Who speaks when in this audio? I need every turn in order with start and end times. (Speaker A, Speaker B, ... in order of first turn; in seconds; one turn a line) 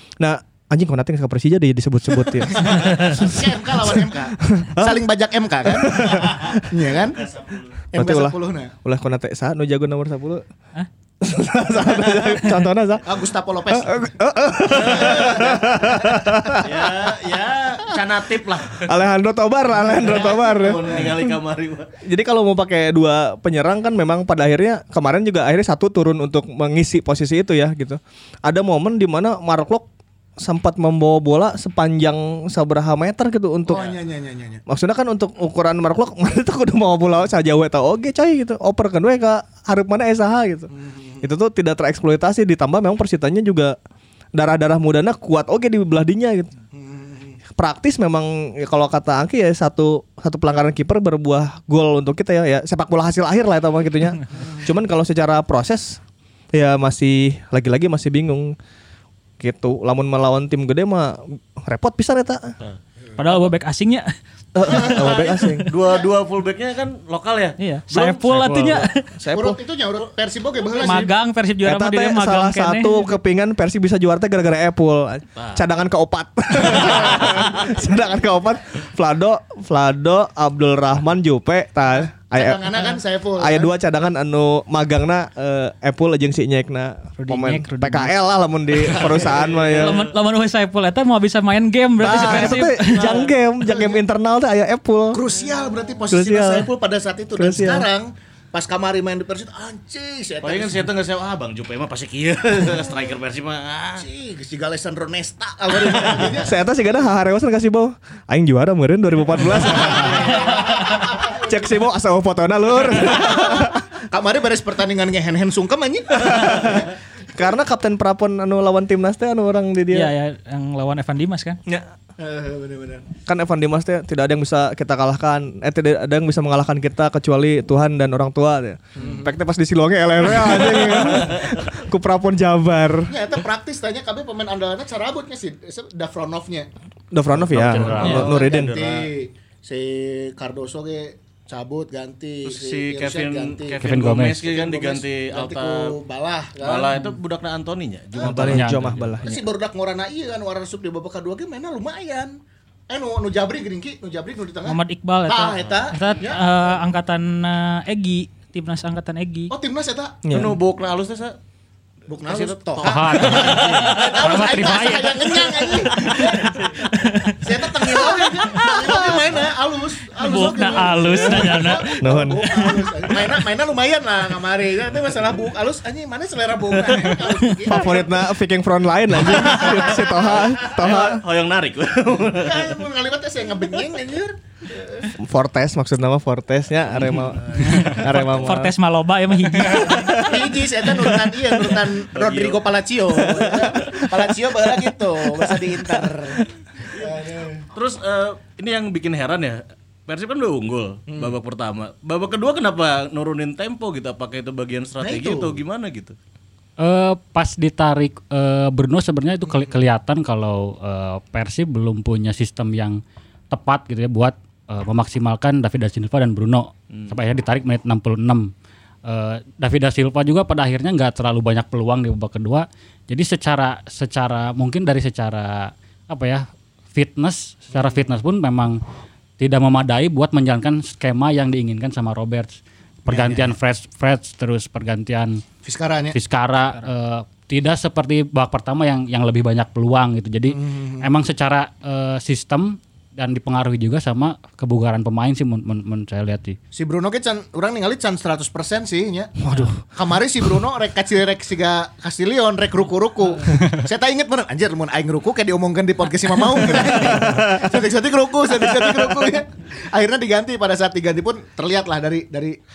Speaker A: 0.2-5.0
Speaker B: 2.4-7.2
Speaker A: 5.6-6.5
Speaker C: 7.1-7.7
Speaker B: 7.9-8.7
Speaker A: 8.0-10.4
Speaker A: 11.2-13.1
Speaker B: 13.0-13.9
Speaker A: 13.7-16.7
Speaker B: 14.7-18.8
Speaker C: 14.8-15.3
Speaker C: 16.6-18.9
Speaker A: 18.8-21.3
Speaker C: 19.9-21.9
Speaker B: 20.0-21.1
Speaker A: 22.0-29.9
Speaker A: 30.4-34.0
Speaker B: 33.6-34.6
Speaker A: 34.7-40.7
Speaker B: 40.7-41.3
Speaker A: 41.2-43.8
Speaker A: 44.3-46.5
Speaker B: 46.7-47.4
Speaker A: 47.6-56.0
Speaker A: 56.5-58.5
Speaker A: 59.4-62.5
Speaker D: 63.1-65.7
Speaker A: 64.5-65.6
Speaker B: 64.7-66.0
Speaker C: 65.7-68.8
Speaker D: 67.6-69.1
Speaker E: 68.4-68.7
Speaker A: 68.7-69.6
Speaker B: 69.3-71.1
Speaker D: 70.8-73.1
Speaker A: 71.6-82.6
Speaker C: 75.4-75.6
Speaker C: 76.9-77.5
Speaker B: 82.3-83.7
Speaker A: 83.4-90.1
Speaker D: 87.2-88.1
Speaker D: 88.9-93.3
Speaker C: 89.0-90.0
Speaker A: 92.0-95.2
Speaker B: 93.7-94.0
Speaker B: 95.1-100.9
Speaker A: 96.1-96.7
Speaker A: 97.4-97.9
Speaker C: 100.4-104.1
Speaker B: 104.0-106.5
Speaker A: 106.3-110.4
Speaker B: 109.6-111.5
Speaker C: 109.8-110.5
Speaker A: 111.2-113.9
Speaker B: 113.1-116.9
Speaker A: 116.2-120.1
Speaker D: 119.9-121.6
Speaker B: 122.2-123.1
Speaker A: 123.2-133.1
Speaker B: 129.0-129.3
Speaker C: 130.7-131.6
Speaker B: 133.1-136.7
Speaker A: 137.1-138.7
Speaker C: 137.4-139.1
Speaker E: 137.5-138.3
Speaker B: 138.0-143.9
Speaker C: 142.4-145.9
Speaker E: 143.8-144.4
Speaker B: 144.4-147.0
Speaker C: 146.6-149.3
Speaker B: 148.1-148.6
Speaker A: 148.2-149.4
Speaker E: 148.5-148.9
Speaker B: 149.2-152.3
Speaker B: 152.9-156.4
Speaker D: 154.6-159.5
Speaker B: 159.5-160.2
Speaker A: 160.2-160.6
Speaker C: 160.3-161.3
Speaker B: 162.1-166.6
Speaker C: 162.2-164.6
Speaker E: 162.8-165.4
Speaker C: 165.9-166.6
Speaker D: 166.0-167.4
Speaker B: 167.4-178.3
Speaker D: 168.0-169.0
Speaker A: 168.8-169.2
Speaker D: 170.2-172.7
Speaker A: 172.0-172.7
Speaker A: 177.7-181.2
Speaker B: 179.2-181.0
Speaker C: 179.7-182.8
Speaker B: 182.3-185.1
Speaker A: 185.2-188.7
Speaker C: 187.0-188.3
Speaker B: 187.3-188.0
Speaker D: 187.6-190.5
Speaker A: 189.7-191.7
Speaker B: 190.2-197.6
Speaker C: 192.1-192.6
Speaker A: 193.2-194.2
Speaker A: 195.2-196.3
Speaker C: 197.7-206.2
Speaker B: 201.1-201.3
Speaker B: 205.0-205.6
Speaker E: 206.8-213.0
Speaker E: 213.5-218.5
Speaker E: 219.1-228.8
Speaker E: 229.4-235.4
Speaker B: 233.1-233.5
Speaker B: 235.6-236.2
Speaker E: 236.1-246.6
Speaker B: 240.5-241.1
Speaker B: 246.7-262.6
Speaker A: 249.4-249.8
Speaker A: 256.6-257.7
Speaker A: 258.6-259.3